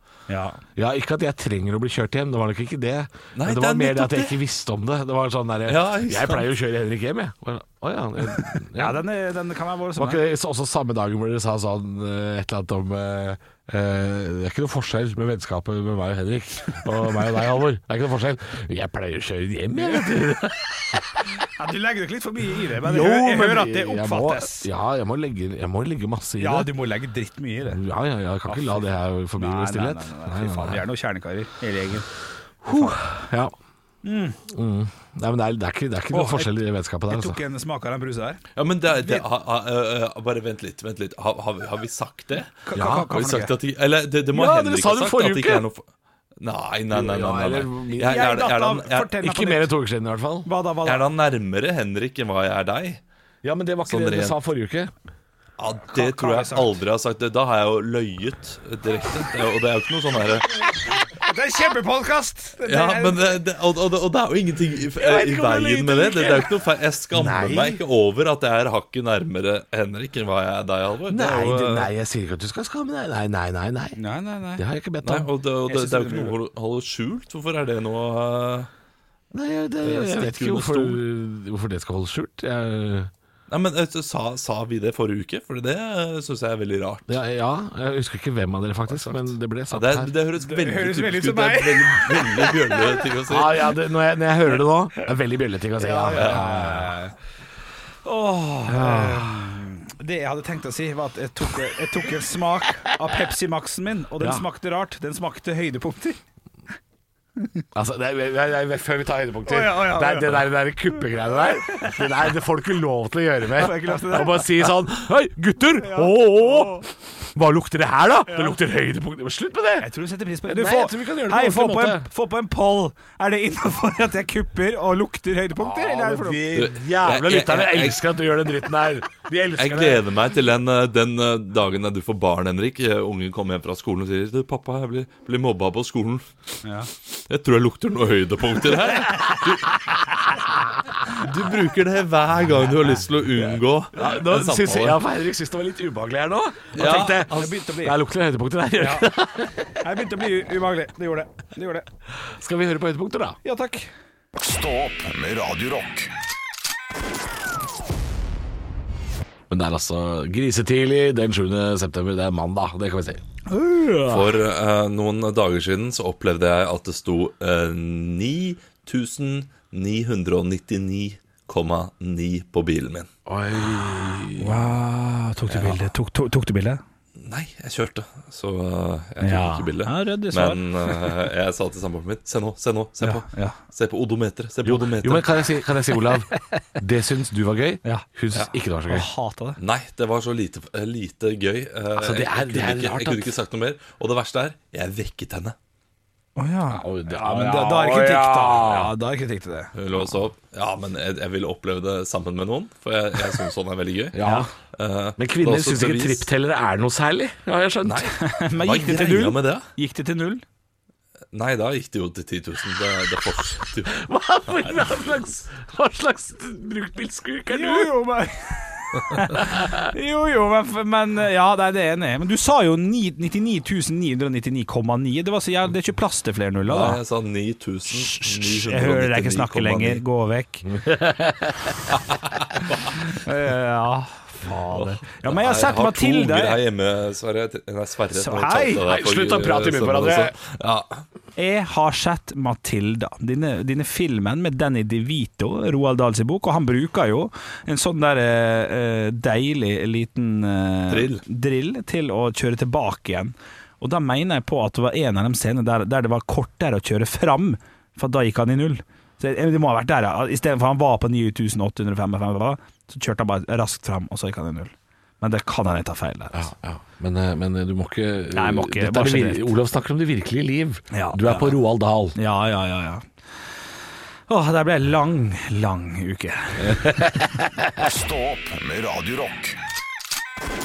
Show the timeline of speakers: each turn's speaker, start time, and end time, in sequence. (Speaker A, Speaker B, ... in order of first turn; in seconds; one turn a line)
Speaker A: 0.3-0.6
Speaker B: 0.8-9.1
Speaker C: 3.4-4.4
Speaker C: 5.7-6.5
Speaker A: 8.5-10.2
Speaker B: 10.0-21.2
Speaker A: 19.8-20.1
Speaker A: 21.6-24.7
Speaker B: 22.7-26.7
Speaker A: 26.4-27.8
Speaker B: 27.7-30.8
Speaker A: 28.5-32.1
Speaker B: 32.6-33.5
Speaker A: 32.7-33.0
Speaker A: 34.0-34.4
Speaker B: 34.5-37.4
Speaker A: 36.1-36.6
Speaker A: 37.1-38.4
Speaker C: 38.6-45.9
Speaker A: 39.0-39.2
Speaker A: 42.7-43.5
Speaker B: 42.8-43.1
Speaker B: 44.3-45.7
Speaker C: 46.4-49.1
Speaker B: 46.9-48.3
Speaker A: 48.0-49.7
Speaker B: 49.2-50.5
Speaker A: 50.5-51.0
Speaker C: 50.9-53.0
Speaker B: 53.4-54.9
Speaker C: 53.9-54.4
Speaker C: 55.6-60.7
Speaker A: 55.9-56.7
Speaker A: 61.1-63.4
Speaker C: 62.6-71.9
Speaker B: 65.1-65.9
Speaker A: 65.2-66.4
Speaker B: 67.1-67.8
Speaker B: 71.1-74.0
Speaker A: 74.0-74.6
Speaker B: 74.6-75.3
Speaker C: 75.0-78.7
Speaker A: 75.7-76.4
Speaker B: 79.3-83.1
Speaker C: 79.8-81.0
Speaker C: 83.5-87.1
Speaker B: 87.1-90.1
Speaker C: 88.9-93.7
Speaker A: 90.4-93.0
Speaker B: 93.3-97.0
Speaker A: 95.8-97.1
Speaker C: 96.2-96.4
Speaker A: 98.0-106.2
Speaker B: 98.7-99.6
Speaker B: 104.2-104.5
Speaker B: 107.7-119.9
Speaker A: 109.5-110.5
Speaker A: 111.4-112.0
Speaker A: 113.5-114.7
Speaker A: 115.8-116.9
Speaker A: 118.3-118.6
Speaker A: 119.8-126.5
Speaker B: 120.5-122.1
Speaker B: 125.6-130.0
Speaker C: 126.5-128.0
Speaker C: 129.6-136.3
Speaker A: 136.6-136.9
Speaker C: 137.1-139.7
Speaker A: 139.1-139.4
Speaker C: 141.1-145.0
Speaker B: 143.9-149.6
Speaker C: 146.7-147.6
Speaker A: 146.8-148.0
Speaker A: 148.8-149.1
Speaker A: 149.8-151.9
Speaker B: 152.2-153.4
Speaker A: 153.4-153.9
Speaker D: 154.4-156.1
Speaker B: 159.5-163.2
Speaker A: 163.5-164.3
Speaker C: 164.1-173.1
Speaker B: 173.3-174.8
Speaker A: 174.4-176.8
Speaker B: 175.5-175.8
Speaker C: 177.2-185.3
Speaker A: 179.2-181.2
Speaker A: 183.0-183.6
Speaker B: 184.6-189.1
Speaker A: 188.9-189.6
Speaker C: 189.6-195.6
Speaker B: 191.9-193.3
Speaker A: 196.4-199.7
Speaker B: 196.7-198.9
Speaker C: 199.8-204.2
Speaker B: 204.1-204.5
Speaker A: 204.2-204.5
Speaker C: 204.8-206.3
Speaker B: 205.2-208.1
Speaker C: 207.8-209.7
Speaker A: 208.2-210.4
Speaker C: 211.3-213.9
Speaker B: 213.9-217.9
Speaker A: 217.5-227.0
Speaker B: 219.4-219.8
Speaker C: 226.7-230.0
Speaker A: 227.9-230.7
Speaker B: 230.7-231.8
Speaker C: 231.9-233.2
Speaker A: 233.0-236.6
Speaker C: 234.7-241.0
Speaker A: 238.1-238.8
Speaker B: 238.8-240.3
Speaker A: 241.4-266.5
Speaker C: 250.9-251.2
Speaker B: 266.3-272.2
Speaker A: 268.3-269.5
Speaker A: 270.9-271.5
Speaker A: 272.1-273.1
Speaker A: 274.3-277.2
Speaker B: 276.6-277.9
Speaker D: 277.8-279.6